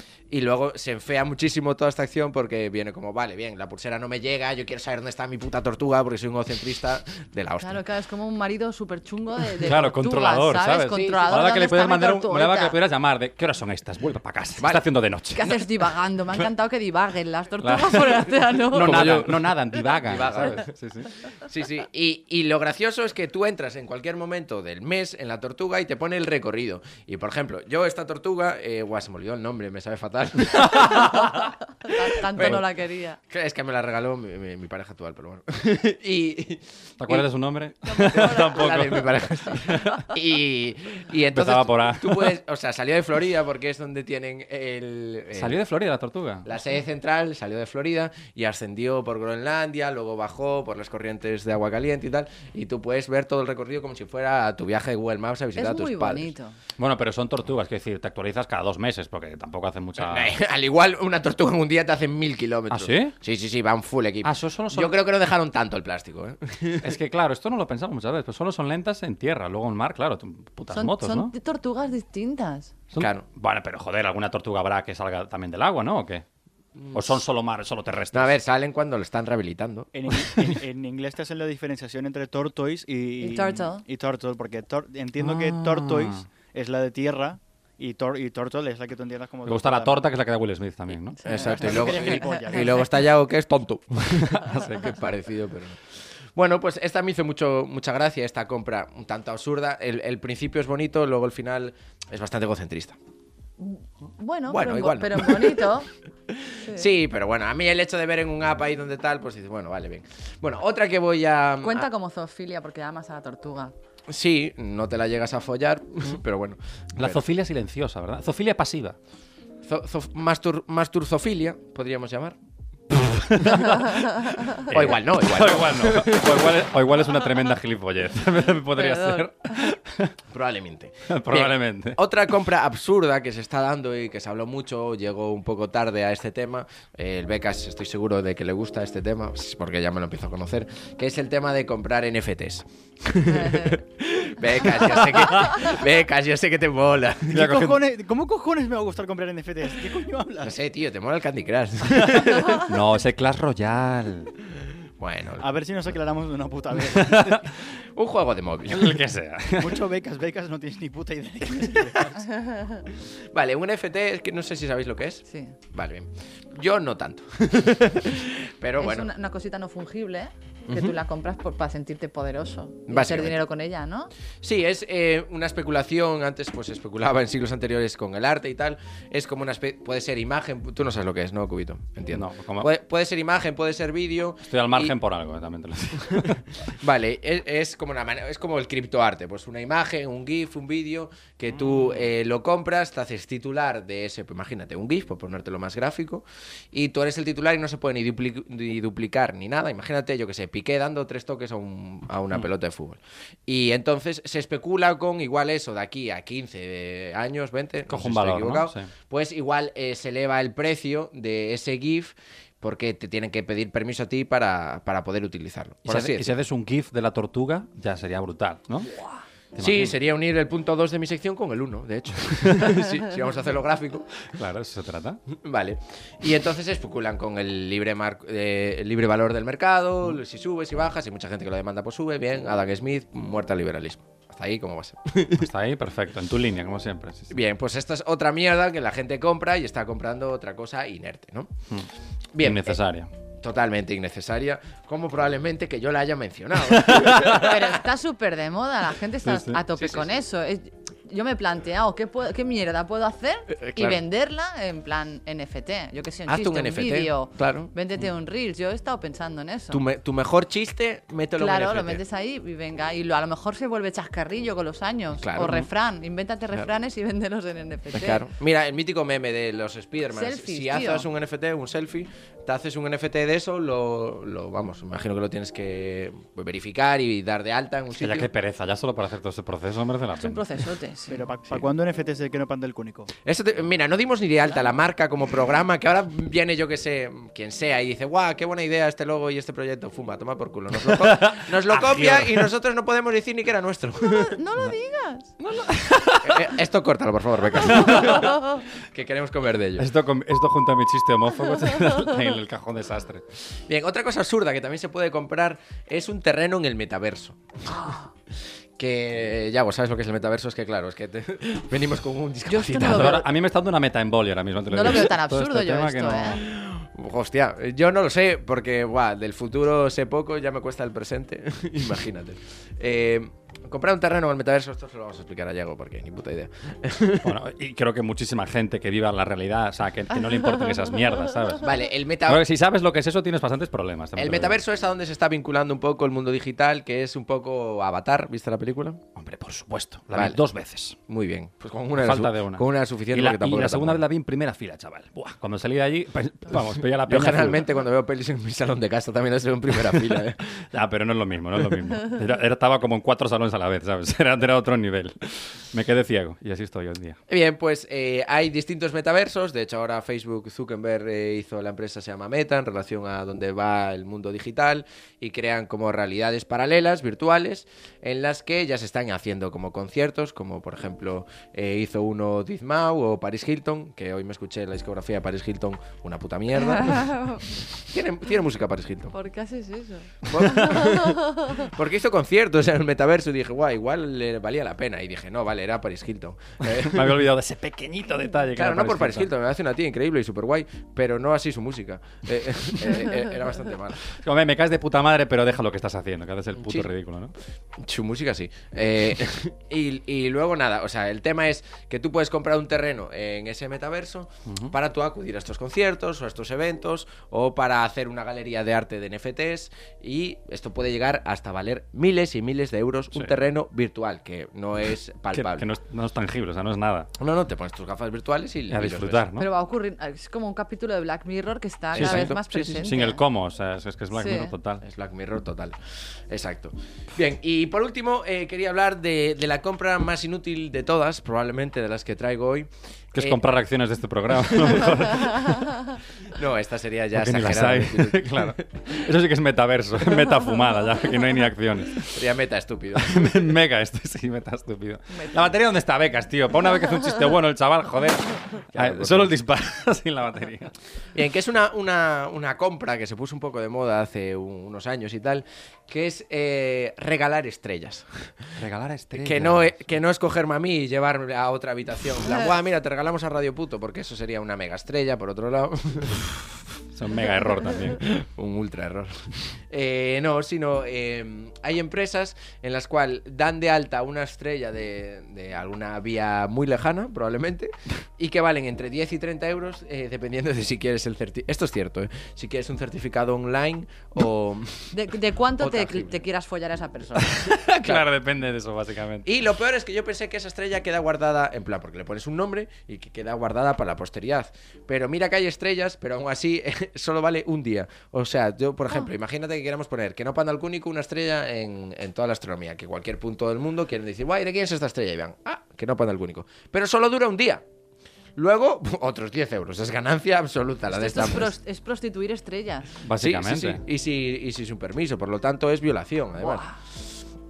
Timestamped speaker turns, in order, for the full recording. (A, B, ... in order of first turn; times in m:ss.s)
0:00.3-0:07.8 A
0:07.6-0:12.8 B
0:09.6-0:15.4 C
0:10.9-0:11.4 A
0:14.6-0:14.8 A
0:15.4-0:19.2 B
0:17.6-0:21.1 C
0:18.7-0:20.7 A
0:21.5-0:31.3 A
0:30.7-0:31.2 C
0:30.9-0:33.2 B
0:32.4-0:32.6 A
0:33.3-0:37.3 A
0:37.0-0:40.1 C
0:37.9-0:38.6 B
0:38.0-0:45.6 A
0:41.4-0:42.3 C
0:45.4-0:46.5 C
0:46.4-0:56.3 A
0:55.6-0:56.6 B
0:56.8-1:00.4 C
1:00.0-1:06.9 A
1:02.7-1:03.1 C
1:04.2-1:04.9 C
1:06.8-1:11.3 C
1:10.7-1:12.7 B
1:12.9-1:16.2 C
1:13.0-1:13.2 A
1:16.8-1:17.2 A
1:16.9-1:18.3 C
1:18.1-1:19.9 A
1:19.9-1:30.0 D
1:23.2-1:23.8 B
1:25.2-1:26.2 C
1:29.4-1:31.2 C
1:31.2-1:32.8 B
1:31.3-1:35.8 A
1:31.5-1:32.8 D
1:34.2-1:35.0 C
1:36.4-1:43.0 A
1:43.6-1:45.9 B
1:44.5-1:51.9 A
1:51.6-1:53.7 B
1:54.1-1:57.2 A
1:57.0-1:59.0 C
1:59.6-2:02.4 A
2:03.1-2:03.7 C
2:03.4-2:03.8 A
2:04.6-2:10.1 C
2:04.6-2:06.6 A
2:08.8-2:09.3 B
2:10.3-2:27.8 A
2:11.1-2:12.0 C
2:23.3-2:23.8 B
2:27.3-2:27.8 C
2:27.3-2:30.5 D
2:30.4-2:32.6 A
2:32.6-2:34.3 C
2:35.0-2:35.4 A
2:35.4-2:37.4 D
2:36.9-2:37.4 C
2:38.0-2:39.0 A
2:38.7-2:39.8 C
2:39.6-2:42.3 D
2:43.3-2:49.1 A
2:48.8-2:54.1 B
2:50.7-2:50.9 A
2:52.9-2:53.4 A
2:54.4-3:04.9 A
3:02.1-3:02.7 C
3:04.5-3:06.7 C
3:06.2-3:36.4 A
3:27.9-3:28.9 C
3:35.9-3:38.9 C
3:39.5-3:39.9 C
3:39.6-3:44.2 A
3:44.3-3:45.2 C
3:45.3-3:55.5 A
3:55.4-3:57.4 C
3:57.3-4:01.5 A
4:02.3-4:02.8 A
4:02.4-4:03.1 C
4:03.4-4:07.8 A
4:06.8-4:07.4 C
4:07.3-4:19.8 B
4:09.2-4:09.6 C
4:09.8-4:10.1 A
4:13.5-4:14.0 A
4:16.3-4:17.7 A
4:19.7-4:22.0 A
4:21.4-4:28.2 B
4:25.2-4:25.7 A
4:27.9-4:38.3 A
4:30.1-4:31.1 B
4:38.0-4:40.6 C
4:40.2-4:41.2 B
4:41.1-4:43.1 D
4:43.2-4:54.4 A
4:50.9-4:52.5 C
4:54.0-4:55.3 B
4:55.4-4:56.5 C
4:56.2-4:59.9 A
4:57.7-4:58.2 C
4:59.8-5:03.2 C
5:03.7-5:07.4 A
5:07.7-5:08.0 B
5:08.8-5:13.2 A
5:12.5-5:13.2 B
5:12.8-5:16.5 C
5:14.7-5:16.4 B
5:16.4-5:27.4 A
5:27.2-5:31.7 C
5:31.6-5:32.4 A
5:32.2-5:34.6 C
5:34.2-5:39.0 A
5:39.2-5:41.0 C
5:40.1-5:40.4 A
5:41.1-5:44.0 A
5:42.0-5:47.6 C
5:47.0-5:50.6 A
5:50.7-5:57.2 C
5:57.3-6:19.1 A
6:16.8-6:17.4 B
6:19.1-6:21.6 B
6:20.2-6:27.2 A
6:26.6-6:29.3 C
6:28.5-6:34.1 A
6:34.2-6:37.3 C
6:36.5-6:36.9 A
6:37.8-6:55.7 A
6:44.5-6:44.7 C
6:55.3-6:57.1 C
6:57.2-6:59.2 A
6:58.7-6:59.5 C
6:59.4-7:03.2 B
7:01.9-7:02.5 A
7:02.0-7:04.8 C
7:04.1-7:04.5 B
7:04.8-7:05.8 A
7:06.3-7:13.4 A
7:13.2-7:15.8 C
7:16.3-7:18.9 A
7:17.1-7:22.2 C
7:22.1-7:23.5 A
7:23.0-7:30.7 C
7:28.7-7:29.3 A
7:31.1-7:38.5 A
7:38.6-7:39.7 C
7:39.1-7:46.2 A
7:46.9-7:48.1 C
7:48.0-8:05.0 A
8:04.9-8:07.5 B
8:05.6-8:06.2 A
8:07.4-8:09.3 C
8:09.2-8:27.6 A
8:28.4-8:31.5 A
8:30.9-8:32.9 B
8:33.0-8:33.8 C
8:33.2-8:36.6 A
8:36.4-8:36.8 B